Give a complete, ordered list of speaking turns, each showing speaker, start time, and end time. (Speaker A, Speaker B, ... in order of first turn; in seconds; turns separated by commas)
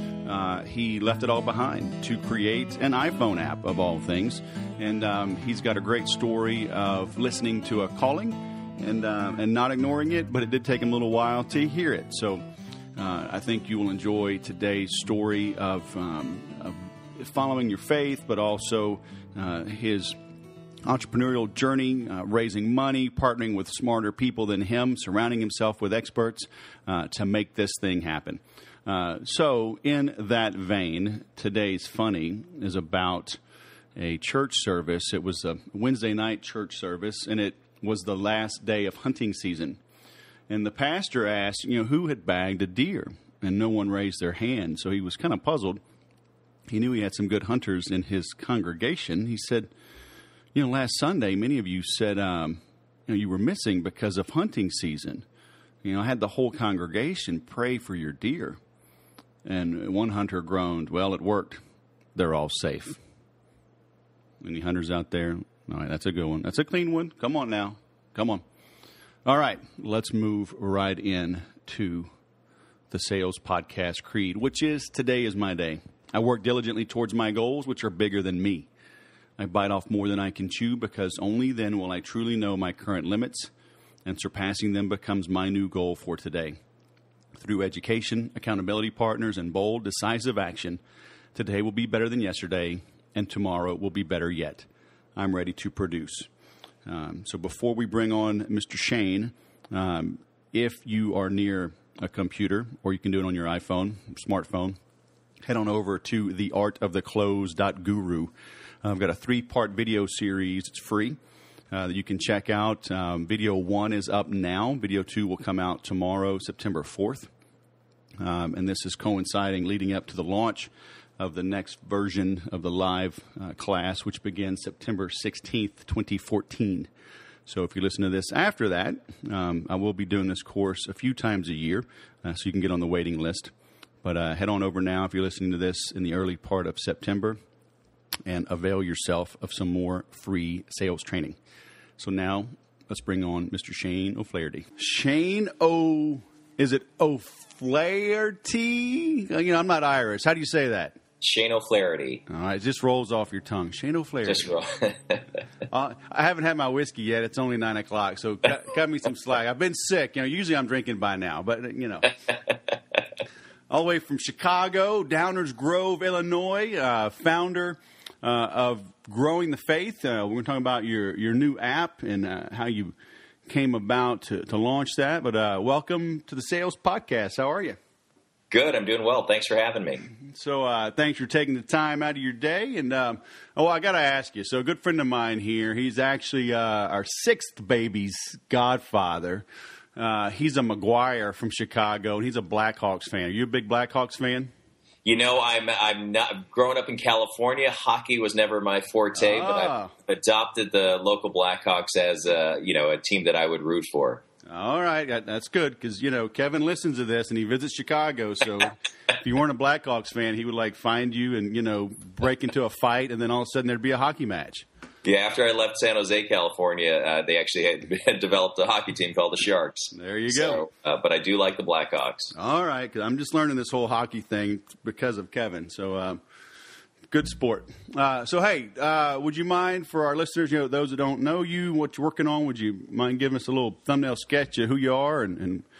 Speaker A: 0.2-12.4, Speaker A: 13.0-20.2, Speaker A: 20.9-33.4, Speaker A: 34.0-39.8, Speaker A: 40.5-45.8, Speaker A: 46.7-49.7, Speaker A: 50.5-55.2, Speaker A: 55.8-58.6, Speaker A: 59.4-61.6, Speaker A: 62.1-63.0, Speaker A: 64.4-68.4, Speaker A: 69.2-72.1, Speaker A: 72.9-78.7, Speaker A: 79.4-83.5, Speaker A: 84.0-86.6, Speaker A: 87.4-90.8, Speaker A: 91.3-96.3, Speaker A: 96.8-104.8, Speaker A: 105.5-108.3, Speaker A: 108.8-111.2, Speaker A: 111.7-117.3, Speaker A: 118.2-126.9, Speaker A: 127.5-133.5, Speaker A: 134.0-137.4, Speaker A: 138.3-141.4, Speaker A: 142.0-151.0, Speaker B: 151.2-152.2, Speaker A: 152.3-154.6, Speaker B: 154.3-155.2, Speaker A: 155.7-162.1, Speaker A: 163.7-172.9, Speaker A: 173.5-177.8, Speaker B: 178.5-180.1, Speaker A: 180.3-194.5, Speaker B: 195.1-204.2, Speaker A: 199.2-199.9, Speaker A: 204.5-214.7, Speaker B: 215.0-222.3, Speaker A: 219.9-220.6, Speaker A: 222.3-226.2, Speaker A: 227.1-235.7